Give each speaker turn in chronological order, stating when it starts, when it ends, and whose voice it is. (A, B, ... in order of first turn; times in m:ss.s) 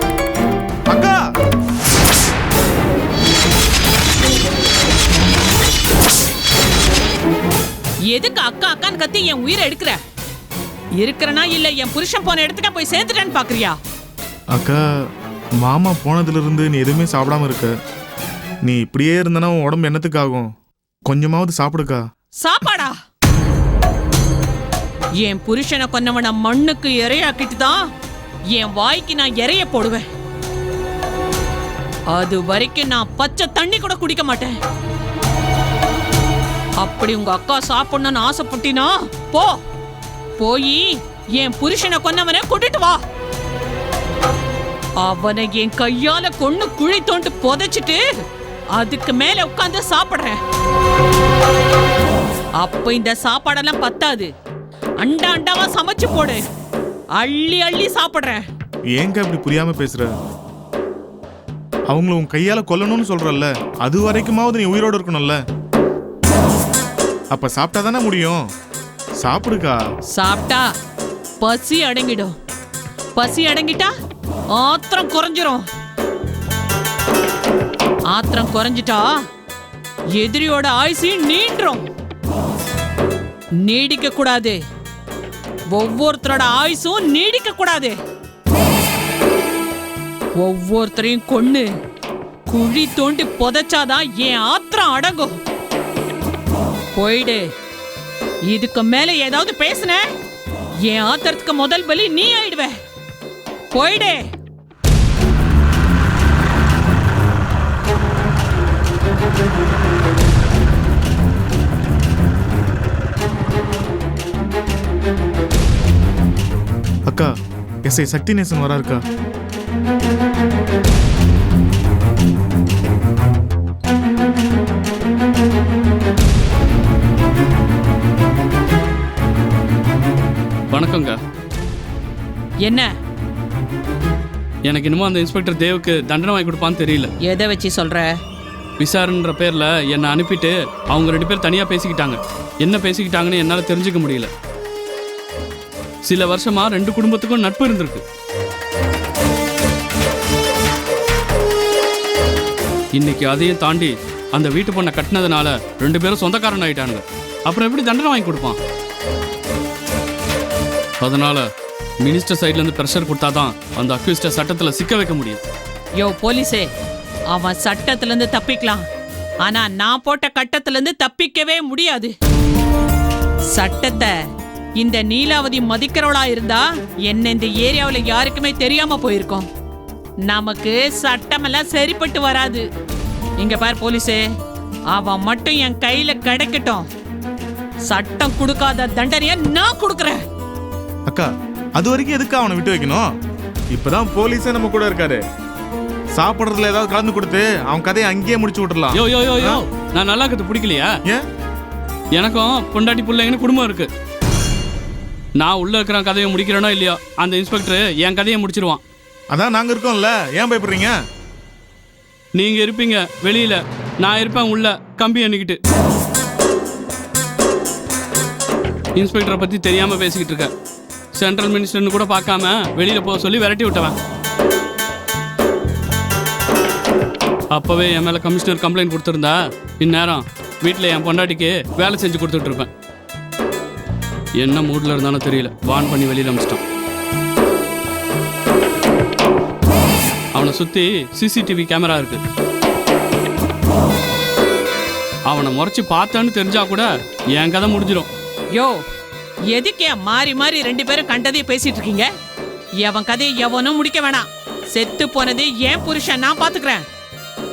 0:00.9-0:01.2 A
0:08.1-0:10.0 B
0:11.0-0:13.8 B
0:14.5-0:14.8 A
0:15.6-0:17.7 A
0:18.6-0:20.5 A
0:21.1-0:22.0 A
0:22.4-0:23.0 B
0:25.2-0:27.8 B
0:28.5-0:30.1 B
0:32.1-0:34.6 B
0:36.8-0:39.6 B
0:40.4-0:43.0 B
0:45.0-0:48.0 B
0:48.8-0:50.4 B
0:52.6-0:54.3 B
0:55.0-0:56.4 B
0:57.2-0:58.4 B
0:58.9-1:00.1 A
1:01.9-1:05.4 A
1:07.3-1:08.4 A
1:09.2-1:09.8 A
1:10.2-1:10.7 B
1:11.4-1:12.3 B
1:13.2-1:13.9 B
1:14.5-1:15.6 B
1:18.1-1:19.1 B
1:20.2-1:21.8 B
1:23.6-1:24.6 B
1:25.7-1:28.0 B
1:30.4-1:31.7 B
1:32.5-1:35.3 B
1:37.0-1:37.4 B
1:38.5-1:40.0 B
1:40.8-1:42.7 B
1:43.7-1:44.2 B
1:57.9-1:59.0 A
2:10.7-2:11.2 C
2:12.6-2:12.9 B
2:14.7-2:17.1 C
2:17.2-2:18.1 B
2:18.8-2:24.3 C
2:26.1-2:28.0 C
2:33.0-2:38.6 C
2:41.0-2:41.5 C
2:42.0-2:45.4 C
2:46.0-2:46.7 B
2:47.3-2:48.8 B
2:49.4-2:52.1 B
2:53.5-2:54.1 B
2:54.8-2:59.5 B
3:00.3-3:02.6 B
3:03.4-3:04.2 B
3:04.9-3:06.9 B
3:07.9-3:10.2 B
3:11.1-3:13.1 A
3:13.7-3:15.2 A
3:16.2-3:19.6 A
3:18.9-3:20.9 C
3:22.2-3:23.9 C
3:25.4-3:28.8 C
3:29.3-3:30.9 A
3:32.4-3:35.6 C
3:39.0-3:40.5 C
3:41.2-3:44.0 C
3:47.5-3:52.7 C
3:54.4-3:56.6 C
4:00.4-4:02.2 C
4:05.3-4:08.1 C
4:08.6-4:08.8 B
4:09.5-4:12.1 B
4:12.8-4:16.8 B